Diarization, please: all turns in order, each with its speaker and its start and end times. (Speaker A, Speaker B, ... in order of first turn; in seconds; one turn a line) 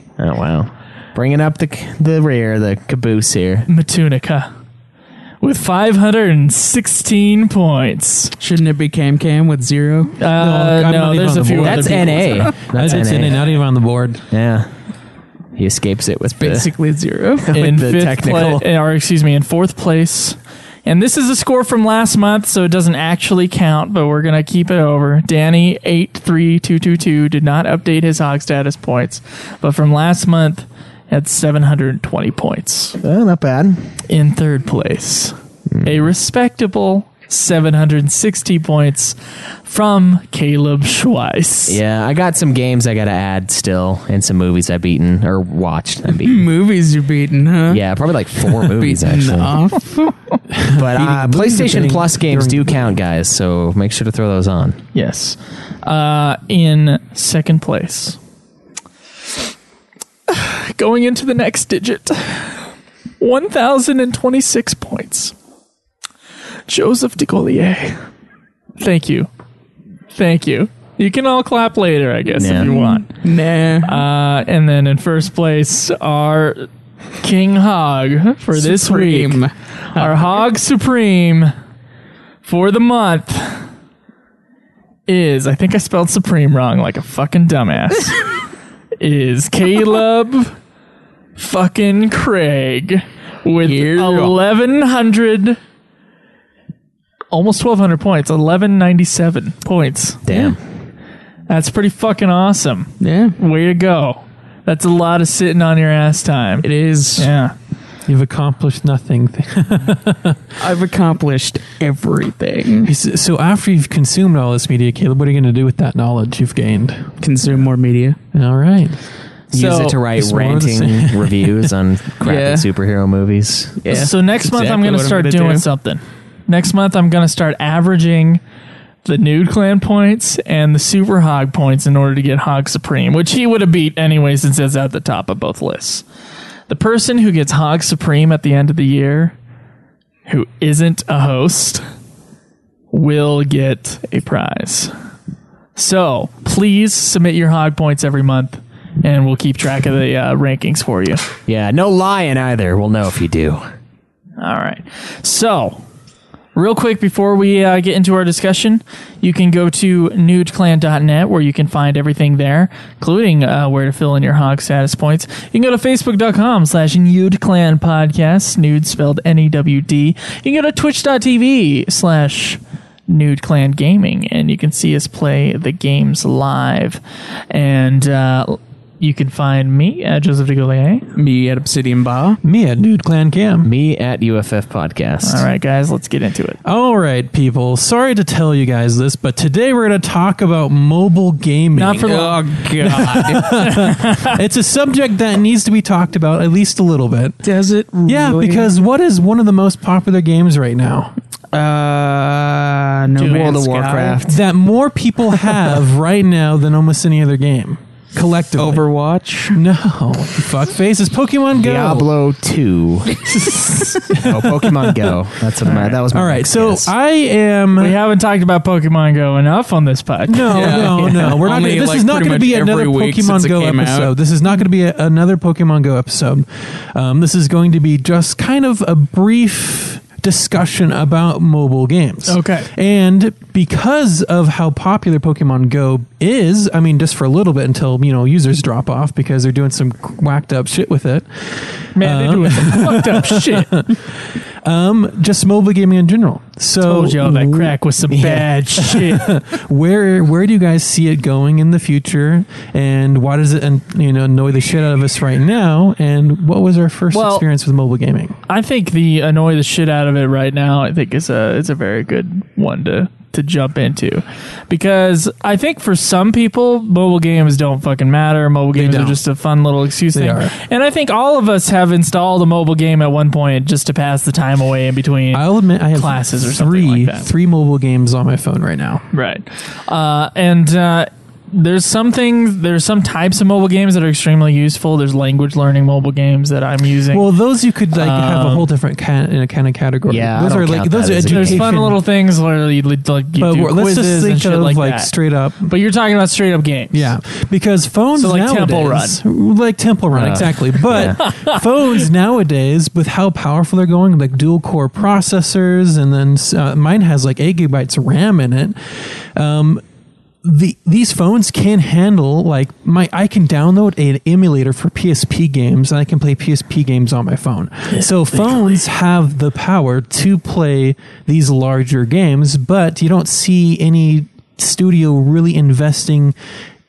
Speaker A: 0.2-3.7
Speaker B: 3.7-4.5
Speaker B: 5.4-8.3
Speaker C: 8.4-10.2
Speaker B: 10.2-12.5
Speaker D: 10.3-14.2
Speaker A: 11.6-13.4
Speaker A: 14.3-14.7
Speaker A: 15.6-16.7
Speaker C: 16.4-17.5
Speaker A: 17.4-18.6
Speaker B: 17.5-33.0
Speaker A: 33.0-33.9
Speaker B: 34.1-41.8
Speaker A: 41.7-46.5
Speaker C: 46.1-47.8
Speaker A: 47.7-49.5
Speaker C: 48.4-50.1
Speaker D: 50.5-53.0
Speaker A: 50.6-54.8
Speaker B: 54.9-58.2
Speaker B: 60.3-62.6
Speaker B: 63.2-65.3
Speaker B: 66.7-68.0
Speaker B: 68.8-69.3
Speaker B: 70.1-73.2
Speaker A: 72.4-72.7
Speaker C: 72.5-74.0
Speaker B: 73.8-76.7
Speaker B: 77.2-79.4
Speaker C: 78.5-80.3
Speaker B: 79.9-81.5
Speaker B: 82.4-83.7
Speaker B: 85.1-88.2
Speaker B: 89.0-90.6
Speaker B: 91.4-95.6
Speaker C: 93.7-94.4
Speaker B: 97.3-100.2
Speaker A: 100.2-100.6
Speaker C: 100.3-100.5
Speaker B: 101.5-107.5
Speaker C: 103.0-103.4
Speaker C: 106.6-107.3
Speaker D: 108.1-110.4
Speaker C: 110.6-112.9
Speaker D: 112.8-117.1
Speaker C: 117.2-118.2
Speaker D: 118.3-119.0
Speaker A: 119.5-123.8
Speaker D: 119.6-121.5
Speaker C: 122.2-122.7
Speaker C: 123.8-125.6
Speaker B: 123.9-128.4
Speaker B: 129.1-136.0
Speaker B: 136.7-139.3
Speaker B: 140.3-141.8
Speaker B: 142.9-144.9
Speaker B: 145.8-151.2
Speaker A: 151.5-153.6
Speaker B: 154.4-155.8
Speaker B: 156.6-181.1
Speaker C: 181.2-182.4
Speaker D: 182.4-183.7
Speaker A: 183.6-185.5
Speaker B: 185.2-186.6
Speaker D: 186.6-192.2
Speaker B: 191.8-192.4
Speaker C: 192.1-193.7
Speaker D: 192.8-197.4
Speaker B: 193.6-194.3
Speaker C: 197.4-198.7
Speaker D: 198.1-201.1
Speaker C: 201.5-204.2
Speaker B: 203.2-203.6
Speaker A: 203.3-204.4
Speaker D: 204.2-208.9
Speaker C: 208.6-209.6
Speaker D: 209.5-212.1
Speaker A: 211.6-213.2
Speaker D: 214.1-215.2
Speaker A: 214.2-216.9
Speaker B: 215.6-216.0
Speaker D: 216.1-218.0
Speaker B: 217.8-221.0
Speaker D: 220.3-258.4
Speaker C: 220.5-224.1
Speaker B: 232.3-232.7
Speaker B: 241.9-243.8
Speaker B: 246.8-249.4
Speaker B: 257.1-257.4
Speaker B: 258.5-277.3
Speaker D: 268.8-269.2
Speaker D: 270.1-270.6
Speaker D: 275.3-279.1
Speaker B: 279.1-287.3
Speaker D: 287.1-292.0
Speaker B: 287.9-288.7
Speaker A: 290.1-291.8
Speaker B: 291.3-297.1
Speaker D: 293.4-295.7
Speaker D: 296.9-309.8
Speaker B: 298.2-299.2
Speaker A: 300.1-301.2
Speaker B: 301.2-301.6
Speaker D: 310.4-326.4
Speaker B: 317.9-318.8